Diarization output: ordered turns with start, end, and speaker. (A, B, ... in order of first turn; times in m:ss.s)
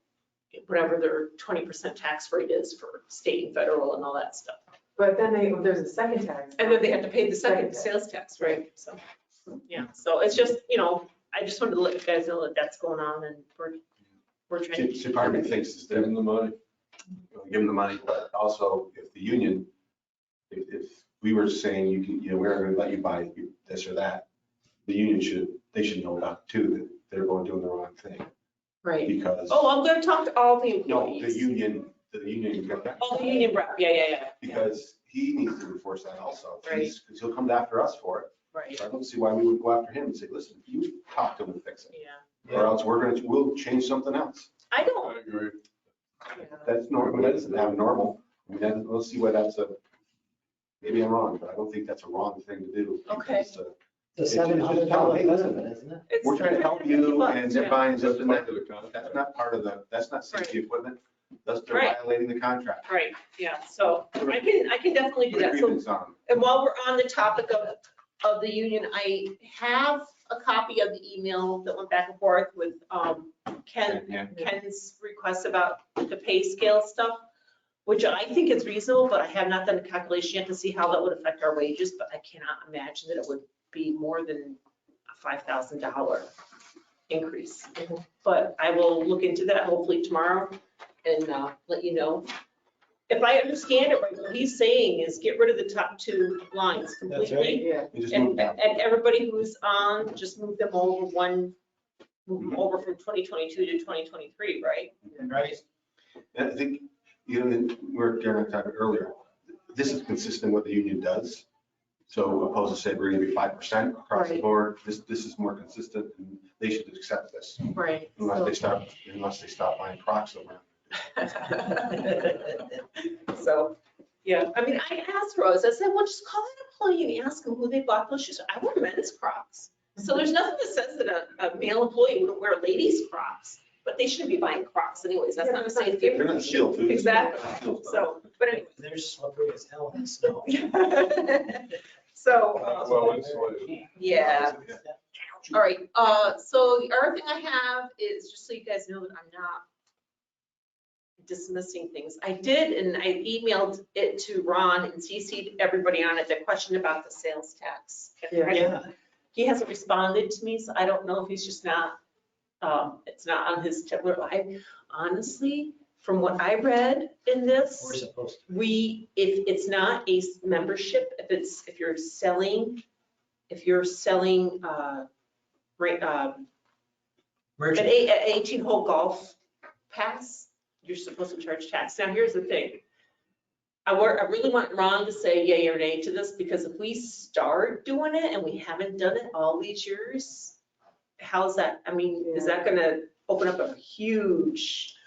0:00.5-0:04.6 A
0:05.0-0:08.6 B
0:06.6-0:09.0 A
0:09.6-0:13.8 A
0:14.5-0:15.6 A
0:14.7-0:16.4 C
0:15.9-0:16.5 D
0:17.3-0:19.7 C
0:20.5-0:24.2 C
0:24.8-0:28.3 C
0:28.9-0:31.5 A
0:29.0-0:29.7 C
0:30.8-0:33.4 C
0:33.0-0:34.6 A
0:34.4-0:41.9 C
0:36.6-0:36.9 A
0:38.5-0:38.8 A
0:41.9-0:42.2 A
0:42.4-0:44.5 C
0:44.7-0:45.2 A
0:45.0-0:45.6 D
0:46.4-0:49.8 C
0:47.0-0:47.7 D
0:50.8-0:53.7 C
0:53.0-0:53.5 A
0:54.2-0:56.0 E
0:54.2-0:55.6 C
0:56.1-0:57.9 A
0:56.2-1:02.9 C
0:57.9-0:59.2 D
1:00.3-1:00.6 A
1:01.7-1:02.0 A
1:02.8-1:17.2 A
1:05.3-1:06.2 C
1:13.8-1:14.3 C
1:17.8-1:26.3 A
1:27.1-1:32.3 A
1:33.1-1:41.6 A
1:37.0-1:37.6 E
1:37.6-1:37.9 B
1:37.9-1:38.6 C
1:42.3-1:45.0 A
1:45.2-1:45.6 E
1:46.3-1:51.4 C
1:52.1-2:01.0 C
1:54.1-1:54.4 A
1:57.7-1:58.5 A
2:01.0-2:18.7 A
2:15.6-2:16.3 B
2:16.1-2:18.2 C
2:18.7-2:20.6 E
2:20.4-2:23.2 A
2:22.5-2:25.0 E
2:22.6-2:23.8 D
2:24.0-2:24.6 A
2:24.2-2:24.8 C
2:25.5-2:29.7 A
2:31.2-2:42.0 A
2:38.5-2:38.8 E
2:42.6-2:52.8 A
2:47.8-2:48.5 E
2:53.5-2:55.1 A
2:55.8-2:56.5 A
2:57.6-2:57.9 E
2:57.7-2:59.4 A
2:59.9-3:02.8 A
3:03.8-3:10.6 A
3:11.2-3:15.0 A
3:12.2-3:12.6 B